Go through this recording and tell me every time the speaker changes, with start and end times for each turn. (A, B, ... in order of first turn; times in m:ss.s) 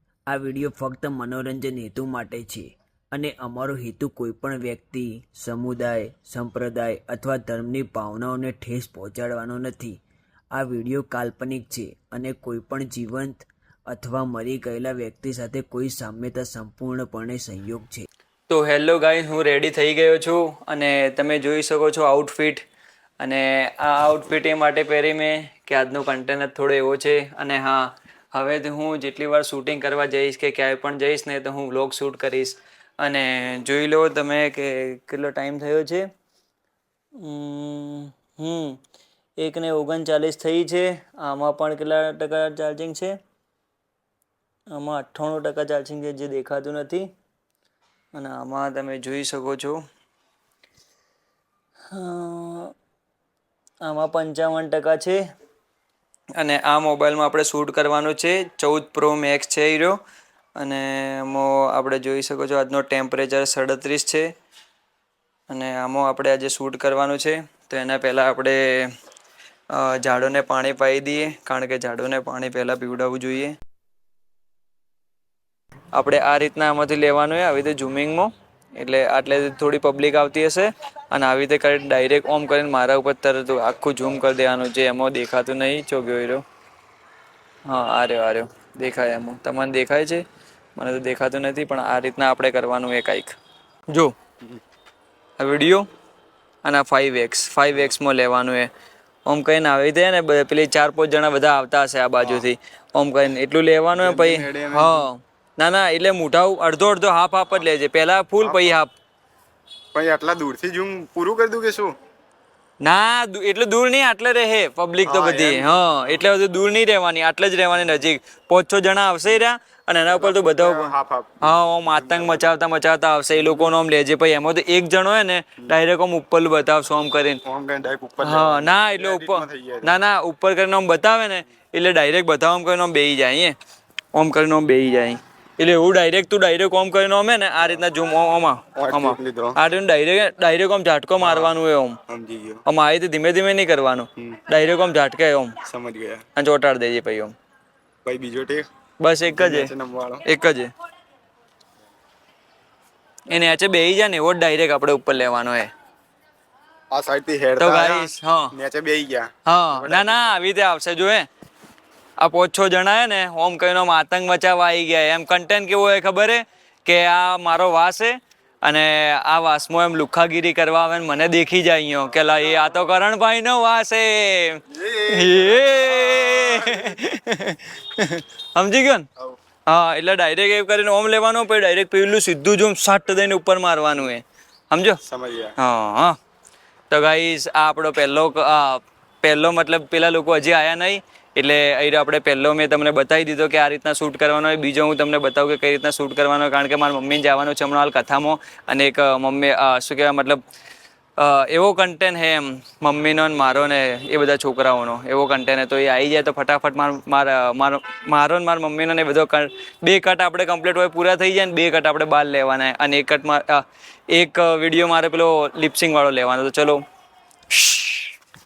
0:00.3-0:10.0 A
0:10.5-0:18.1 A
0:18.5-0:22.6 B
0:23.2-0:36.1 B
0:37.2-0:38.8 B
0:39.4-0:43.2 B
0:44.7-0:47.1 B
0:48.1-0:49.8 B
0:51.9-0:52.7 B
0:53.8-0:55.2 B
0:56.4-1:00.0 B
1:00.6-1:04.3 B
1:05.5-1:08.9 B
1:09.7-1:13.6 B
1:15.9-1:26.4 B
1:27.6-1:30.2 B
1:30.8-1:33.4 B
1:33.9-1:34.2 B
1:35.4-1:35.9 B
1:36.6-1:38.7 B
1:39.3-1:48.9 B
1:42.2-1:42.5 C
1:43.9-1:45.1 C
1:48.4-1:48.8 C
1:49.9-1:52.0 C
1:52.8-2:07.4 B
1:55.0-1:55.8 C
2:00.1-2:02.5 C
2:03.3-2:03.7 C
2:07.4-2:10.0 C
2:08.2-2:13.6 B
2:14.1-2:22.0 B
2:18.8-2:19.6 C
2:21.2-2:21.5 C
2:22.1-2:22.6 C
2:22.7-2:25.6 B
2:25.6-2:26.2 C
2:26.4-2:27.3 B
2:28.0-2:28.7 C
2:29.0-2:29.7 B
2:29.2-2:30.2 C
2:30.3-2:30.7 B
2:33.3-2:35.7 B
2:36.9-2:40.3 C
2:37.6-2:38.5 B
2:39.5-2:41.3 B
2:42.2-2:59.1 B
2:54.7-2:56.8 C
2:59.7-3:05.0 B
3:05.0-3:05.5 C
3:05.6-3:06.2 B
3:06.9-3:20.4 B
3:21.2-3:36.8 B
3:37.5-3:38.1 B